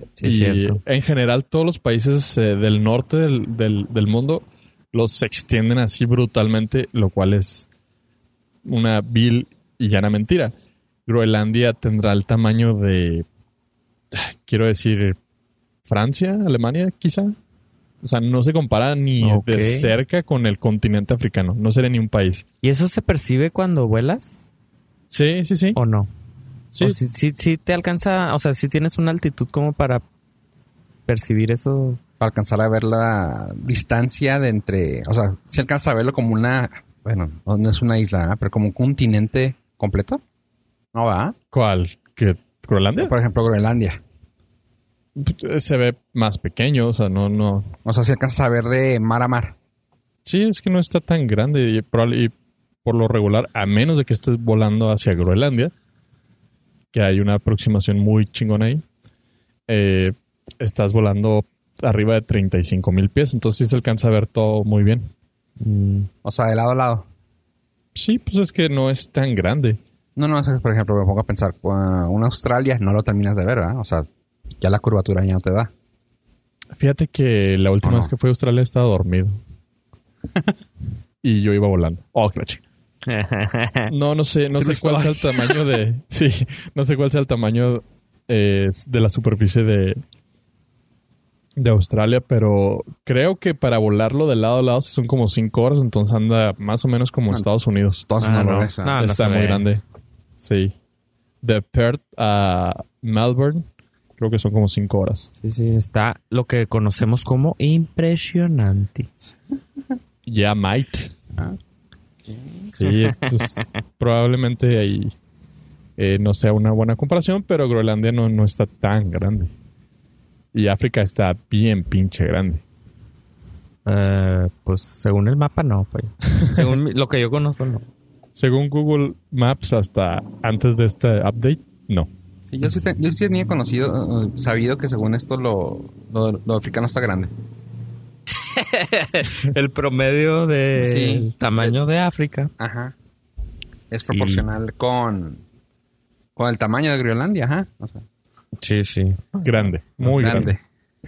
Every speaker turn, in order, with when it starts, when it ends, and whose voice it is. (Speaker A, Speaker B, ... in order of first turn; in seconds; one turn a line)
Speaker A: 0.2-0.8
Speaker B: 0.2-7.7
Speaker B: 8.6-10.5
Speaker B: 11.1-13.2
Speaker B: 14.1-15.2
Speaker B: 15.8-17.4
Speaker B: 18.0-22.4
Speaker A: 19.2-19.9
Speaker A: 22.6-24.5
Speaker B: 25.1-25.8
Speaker A: 25.7-26.1
Speaker B: 26.7-27.0
Speaker A: 26.8-30.0
Speaker A: 31.1-32.0
Speaker C: 32.2-40.2
Speaker C: 40.9-41.4
Speaker B: 41.5-43.1
Speaker C: 43.0-44.0
Speaker B: 45.1-47.7
Speaker C: 47.8-49.5
Speaker B: 50.2-55.7
Speaker B: 56.9-58.8
Speaker B: 59.7-65.1
Speaker A: 65.6-66.1
Speaker C: 66.2-67.1
Speaker B: 67.9-69.8
Speaker C: 70.2-74.1
Speaker C: 74.6-75.7
Speaker B: 76.8-79.4
Speaker C: 77.8-78.1
Speaker B: 81.2-82.6
Speaker A: 83.0-83.9
Speaker B: 83.9-90.0
Speaker A: 84.6-85.5
Speaker B: 91.5-99.8
Speaker C: 98.1-99.0
Speaker A: 98.2-99.7
Speaker B: 100.4-100.7
Speaker B: 101.4-103.7
Speaker B: 104.2-105.3
Speaker A: 105.4-109.1
Speaker B: 110.2-111.1
Speaker C: 112.2-112.7
Speaker B: 112.7-115.1
Speaker A: 112.8-113.6
Speaker B: 116.0-119.5
Speaker B: 120.5-122.6
Speaker A: 123.8-127.8
Speaker B: 126.4-126.7
Speaker B: 128.3-132.1
Speaker C: 132.5-137.3
Speaker A: 138.3-142.5
Speaker C: 140.8-141.7
Speaker C: 142.6-142.9
Speaker C: 143.9-145.4
Speaker A: 144.1-144.4
Speaker C: 146.3-148.0
Speaker A: 148.6-149.5
Speaker B: 149.4-150.5
Speaker C: 150.0-150.6
Speaker A: 150.1-150.5